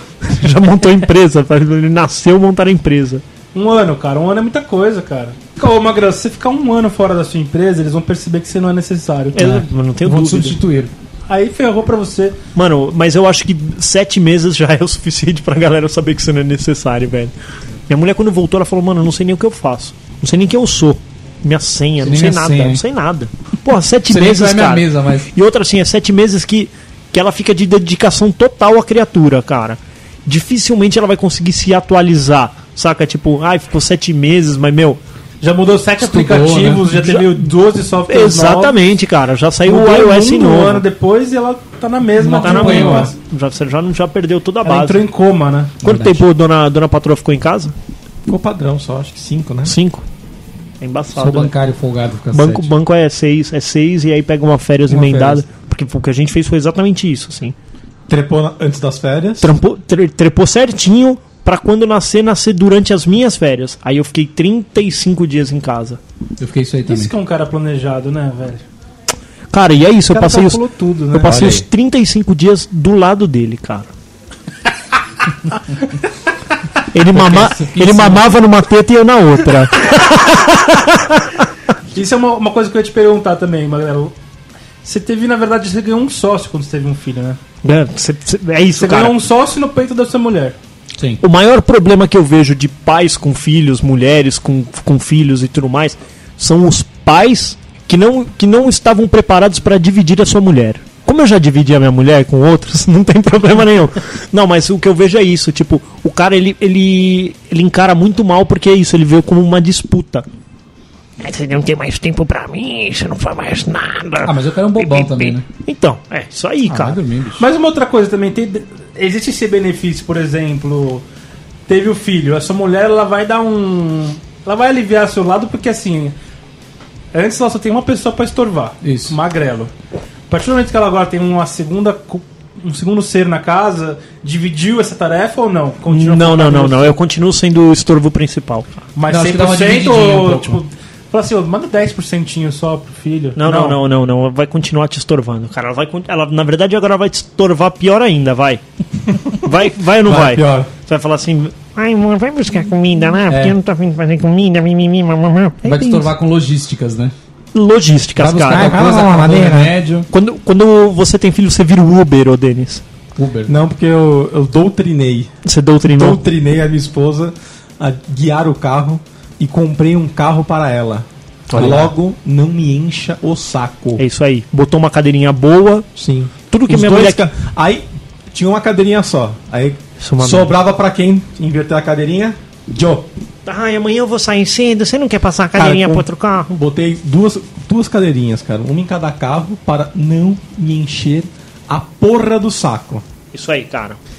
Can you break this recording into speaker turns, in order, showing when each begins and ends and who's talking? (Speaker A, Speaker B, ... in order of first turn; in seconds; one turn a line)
Speaker A: 0.2-3.2
Speaker B: 3.5-9.6
Speaker A: 9.3-10.6
Speaker C: 9.3-10.9
Speaker B: 11.3-12.4
Speaker A: 12.5-17.3
Speaker A: 17.9-35.0
Speaker C: 22.0-22.8
Speaker C: 24.1-25.3
Speaker B: 35.4-38.8
Speaker C: 36.0-36.9
Speaker A: 36.9-37.4
Speaker A: 38.1-40.8
Speaker B: 39.6-43.1
Speaker C: 42.2-43.1
Speaker A: 42.3-45.0
Speaker B: 44.6-45.8
Speaker C: 45.8-46.2
Speaker A: 45.8-47.7
Speaker D: 48.2-49.8
Speaker A: 49.6-50.0
Speaker A: 50.8-51.5
Speaker C: 51.1-52.7
Speaker A: 52.3-57.5
Speaker C: 54.9-55.4
Speaker D: 58.1-59.5
Speaker A: 59.4-66.0
Speaker C: 66.4-67.1
Speaker B: 66.8-68.6
Speaker A: 69.5-73.9
Speaker B: 70.1-71.5
Speaker D: 71.3-71.7
Speaker A: 76.9-81.4
Speaker C: 77.1-78.2
Speaker B: 81.9-84.1
Speaker B: 84.8-87.4
Speaker A: 87.6-89.2
Speaker B: 88.8-90.6
Speaker A: 91.2-110.2
Speaker A: 111.2-117.0
Speaker C: 114.2-115.4
Speaker C: 116.7-117.5
Speaker B: 117.4-121.0
Speaker B: 121.7-126.1
Speaker B: 127.1-129.7
Speaker C: 128.8-129.2
Speaker B: 130.3-137.0
Speaker A: 135.9-138.7
Speaker B: 138.9-143.8
Speaker C: 139.1-140.6
Speaker A: 143.3-148.6
Speaker A: 149.1-156.1
Speaker D: 150.0-150.7
Speaker C: 153.3-153.6
Speaker C: 155.6-157.1
Speaker A: 157.5-159.0
Speaker C: 158.2-160.1
Speaker D: 158.5-159.8
Speaker A: 160.1-162.8
Speaker C: 163.2-163.6
Speaker D: 163.5-165.3
Speaker A: 165.4-166.2
Speaker D: 165.8-174.0
Speaker A: 171.5-171.9
Speaker C: 171.5-171.9
Speaker A: 174.0-175.9
Speaker D: 175.9-183.1
Speaker A: 176.5-177.2
Speaker A: 180.0-180.5
Speaker A: 183.4-186.6
Speaker D: 185.5-193.0
Speaker A: 193.3-194.0